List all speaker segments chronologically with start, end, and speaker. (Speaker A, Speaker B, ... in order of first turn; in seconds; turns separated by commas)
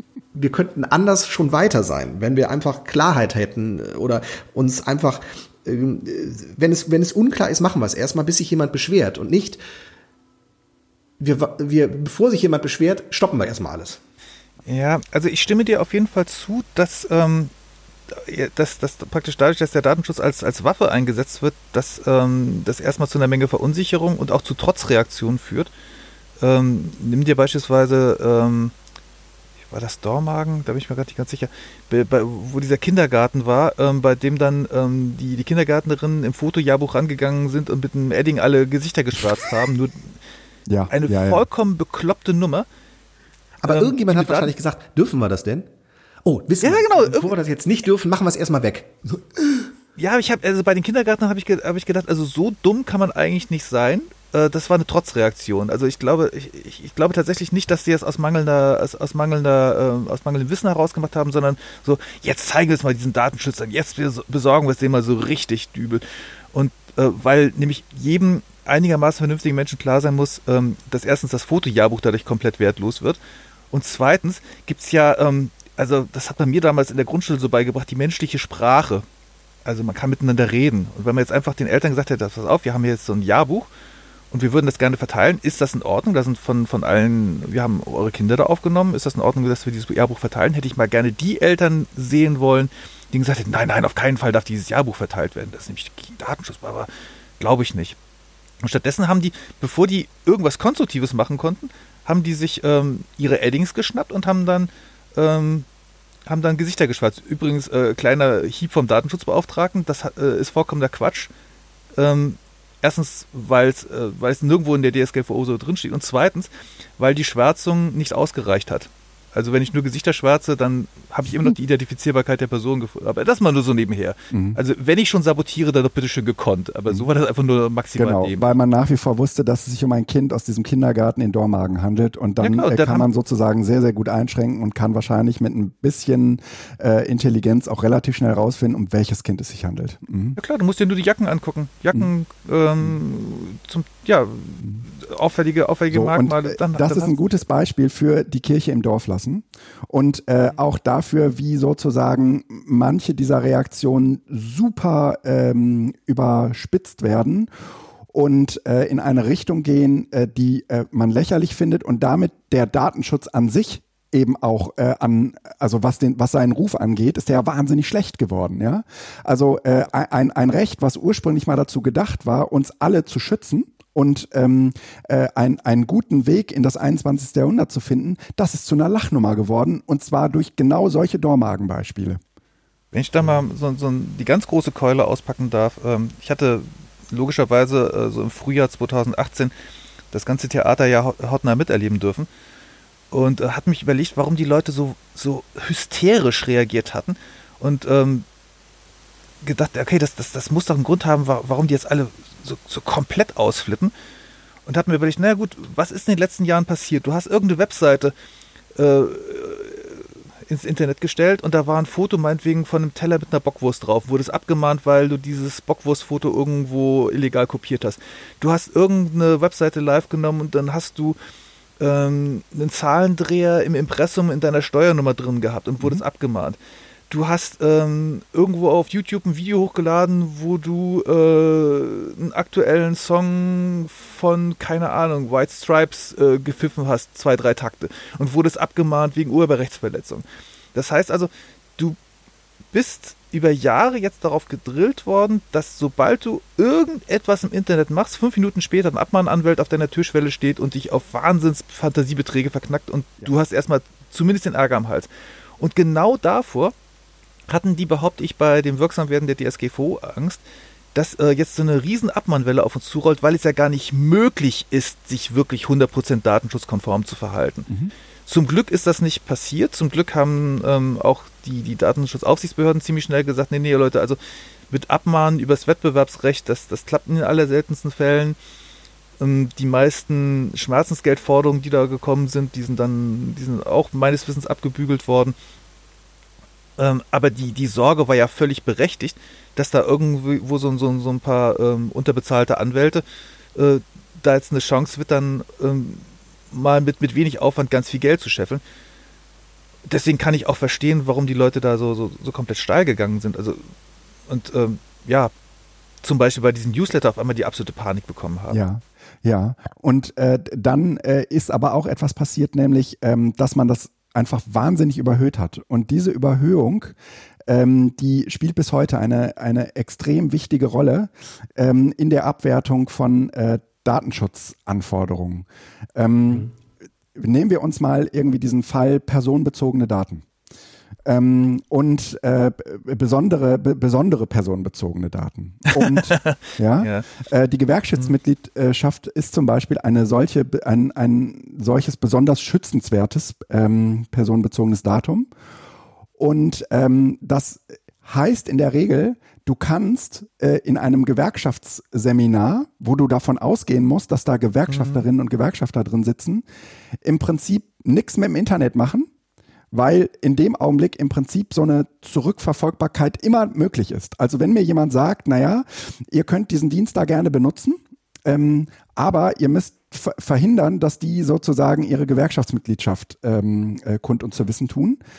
Speaker A: 0.3-9.6, Speaker A: 11.2-14.0, Speaker B: 14.7-17.5, Speaker B: 18.1-25.7, Speaker B: 26.4-28.7, Speaker B: 29.7-40.1, Speaker C: 40.7-41.4, Speaker B: 40.9-42.7, Speaker A: 43.6-45.7, Speaker B: 43.7-44.5, Speaker A: 46.2-49.7, Speaker B: 46.6-47.3, Speaker B: 50.0-73.2, Speaker B: 73.7-79.0, Speaker B: 79.7-83.7, Speaker B: 84.3-98.0, Speaker B: 98.6-105.7, Speaker B: 106.3-111.3, Speaker B: 112.0-128.6, Speaker C: 124.3-124.6, Speaker C: 128.0-140.4, Speaker B: 132.4-133.1, Speaker B: 140.4-147.1, Speaker C: 145.9-157.5, Speaker C: 158.1-182.2, Speaker B: 182.9-189.5, Speaker B: 190.1-192.3, Speaker B: 193.1-198.3, Speaker B: 199.4-203.9, Speaker B: 204.7-208.1, Speaker B: 208.8-221.2, Speaker B: 221.8-226.6, Speaker B: 227.1-242.0, Speaker B: 242.7-256.7, Speaker B: 257.5-260.4, Speaker B: 260.9-267.7, Speaker B: 268.3-274.2, Speaker B: 274.7-278.4, Speaker B: 279.2-285.4, Speaker B: 286.8-293.0, Speaker B: 293.6-298.6, Speaker B: 299.9-303.6, Speaker B: 304.3-305.3, Speaker B: 306.0-308.6, Speaker C: 308.5-317.0, Speaker C: 317.5-326.5, Speaker C: 327.1-330.2, Speaker C: 331.1-345.3, Speaker B: 335.7-337.1, Speaker C: 346.2-356.4, Speaker B: 354.7-355.0, Speaker C: 357.0-359.1, Speaker C: 359.7-375.0